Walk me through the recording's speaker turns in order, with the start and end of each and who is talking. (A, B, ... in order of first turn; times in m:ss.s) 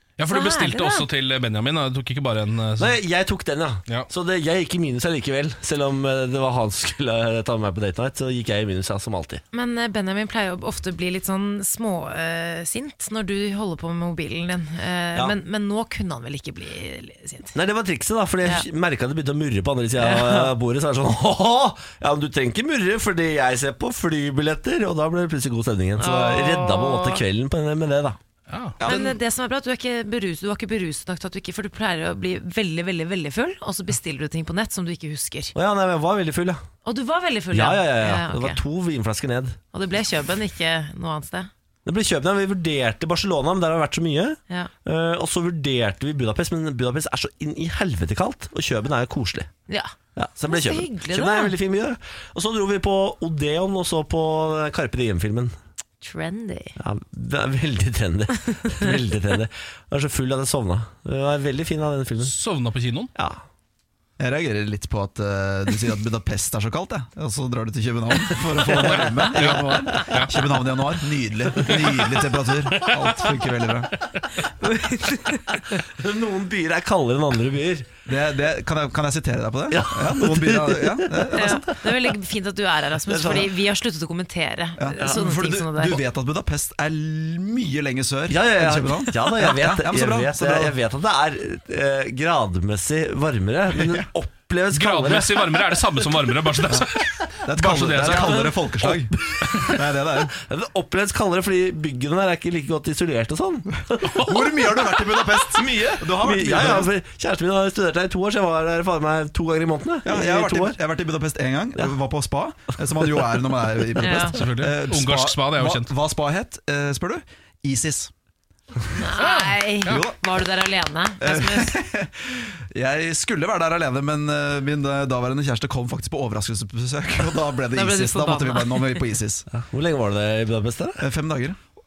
0:00.2-0:03.0 A
0:00.3-0:01.1 B
0:02.8-0:09.4 C
0:09.5-0:17.6 B
0:17.5-0:28.2 C
0:20.0-0:20.5 B
0:26.0-0:27.2 B
0:28.5-0:29.1 A
0:28.8-0:29.1 D
0:28.8-0:35.5 B
0:35.6-0:36.6 C
0:36.8-0:38.6 B
0:37.5-0:39.6 C
0:39.7-0:41.5 B
0:41.8-0:49.5 C
0:49.7-0:49.9 B
0:50.2-0:55.6 C
0:50.4-0:51.6 B
0:56.0-0:56.8 B
0:56.8-1:02.3 C
1:02.2-1:03.1 A
1:03.2-1:03.4 C
1:04.2-1:13.9 D
1:09.3-1:10.4 A
1:14.6-1:15.6 B
1:15.8-1:17.9 C
1:18.1-1:21.8 D
1:19.7-1:21.6 C
1:21.3-1:26.0 B
1:23.1-1:23.5 C
1:24.8-1:30.7 D
1:25.0-1:25.3 C
1:28.3-1:35.7 C
1:34.7-1:38.6 A
1:37.4-1:40.3 D
1:38.0-1:44.9 C
1:44.1-1:44.3 A
1:44.2-1:46.9 D
1:45.5-1:50.8 C
1:50.0-1:58.1 D
1:54.0-1:54.4 B
1:54.3-1:55.9 A
1:58.9-2:01.8 B
1:59.2-2:00.0 A
1:59.8-2:00.2 D
2:01.2-2:09.5 D
2:07.7-2:09.0 B
2:09.5-2:11.0 C
2:11.0-2:11.6 D